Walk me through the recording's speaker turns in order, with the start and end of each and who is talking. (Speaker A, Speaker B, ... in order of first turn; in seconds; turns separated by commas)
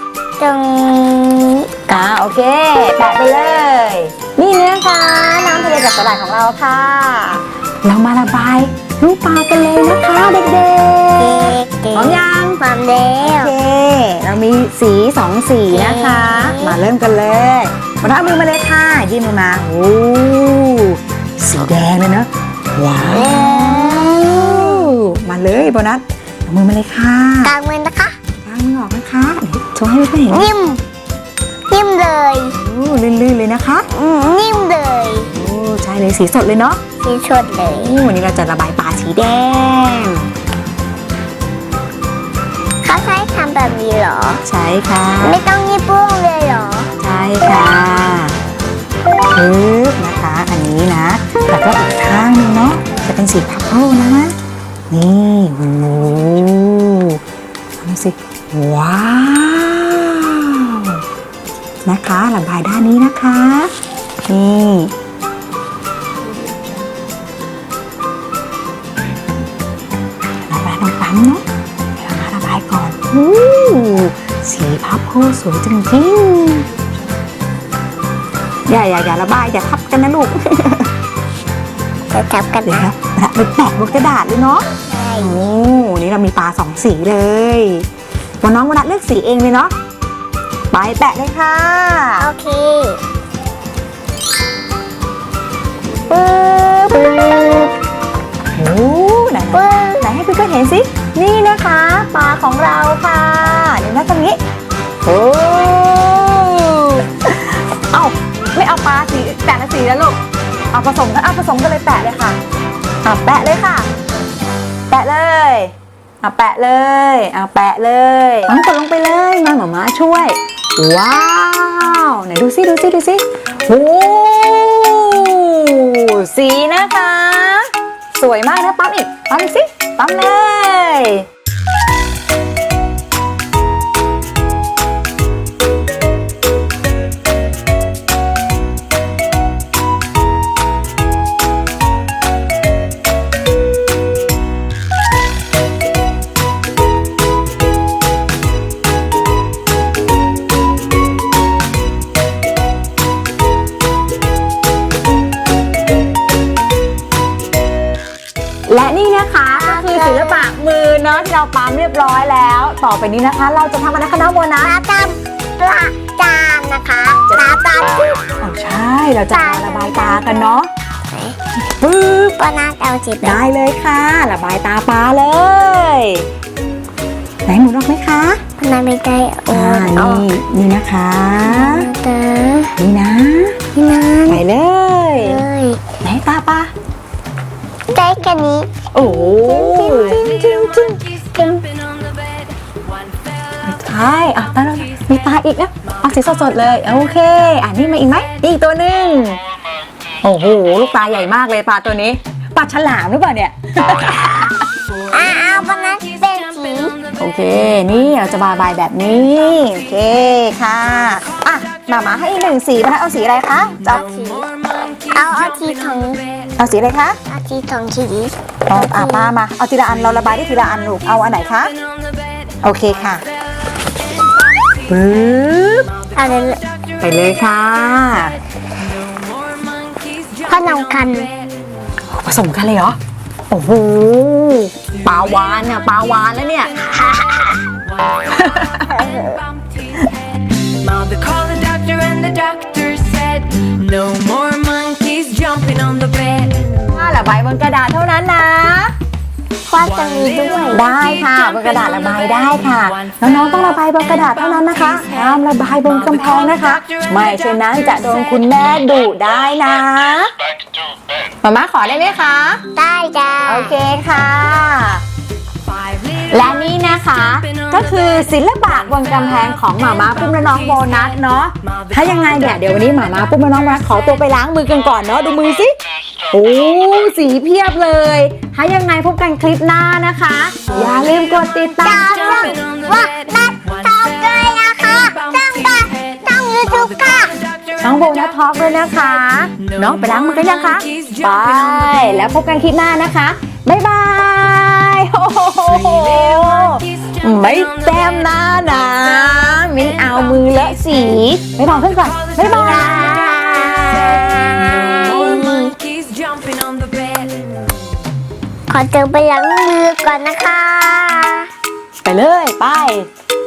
Speaker A: 0.4-1.7, Speaker B: 1.9-12.6, Speaker A: 11.2-13.5, Speaker B: 13.2-27.5, Speaker A: 15.7-16.8, Speaker A: 23.1-24.9, Speaker A: 27.4-28.2, Speaker B: 28.4-30.5, Speaker A: 30.3-30.8, Speaker A: 31.7-32.6, Speaker B: 32.5-33.9, Speaker A: 33.9-35.3, Speaker B: 35.3-36.8, Speaker A: 37.0-37.9, Speaker B: 37.5-40.3, Speaker A: 42.8-44.4, Speaker B: 44.4-45.4, Speaker A: 45.2-46.9, Speaker B: 47.0-48.4, Speaker B: 49.3-54.4, Speaker B: 54.9-57.2, Speaker B: 57.8-61.0, Speaker B: 61.9-63.7, Speaker B: 64.3-64.9, Speaker B: 70.5-71.5, Speaker B: 72.0-76.7, Speaker B: 78.7-80.9, Speaker A: 82.1-82.9, Speaker B: 82.7-87.9, Speaker A: 84.8-85.5, Speaker B: 88.4-89.7, Speaker B: 90.7-92.3, Speaker A: 92.2-93.0, Speaker B: 96.1-96.9, Speaker A: 96.3-97.7, Speaker B: 98.6-104.4, Speaker A: 99.5-100.1, Speaker B: 105.0-110.2, Speaker B: 110.7-112.4, Speaker B: 113.0-113.9, Speaker B: 114.9-131.3, Speaker B: 158.7-164.8, Speaker A: 159.5-160.5, Speaker A: 164.6-168.2, Speaker B: 168.2-170.7, Speaker A: 169.3-170.6, Speaker A: 171.1-171.4, Speaker B: 171.8-172.4, Speaker A: 172.2-173.4, Speaker B: 173.2-176.3, Speaker B: 177.5-178.4, Speaker A: 178.6-180.3, Speaker B: 179.5-181.9, Speaker A: 181.4-182.8, Speaker B: 182.8-183.6, Speaker A: 183.7-184.4, Speaker B: 184.3-185.4, Speaker A: 185.2-185.8, Speaker B: 186.0-186.7, Speaker A: 187.9-190.5, Speaker B: 188.9-191.6, Speaker B: 193.7-199.4, Speaker B: 200.2-204.6, Speaker A: 205.1-207.0, Speaker B: 207.1-214.1, Speaker A: 213.9-216.2, Speaker B: 216.6-217.2, Speaker A: 217.3-219.3, Speaker B: 218.7-221.8, Speaker B: 222.6-223.2, Speaker B: 224.8-226.0, Speaker A: 226.1-226.6, Speaker B: 227.0-228.4, Speaker A: 230.5-231.3, Speaker B: 232.1-233.0, Speaker B: 233.5-237.1, Speaker A: 237.0-237.5, Speaker B: 238.2-239.1, Speaker A: 238.9-239.4, Speaker C: 240.9-246.5, Speaker B: 246.8-248.9, Speaker A: 249.7-250.9, Speaker B: 250.7-260.3, Speaker B: 261.4-262.6, Speaker A: 262.8-263.8, Speaker B: 263.4-265.0, Speaker B: 266.2-275.8, Speaker B: 276.3-282.6, Speaker A: 281.8-287.4, Speaker B: 287.8-303.2, Speaker A: 302.4-305.8, Speaker C: 306.1-307.3, Speaker A: 308.7-311.5, Speaker B: 312.0-313.1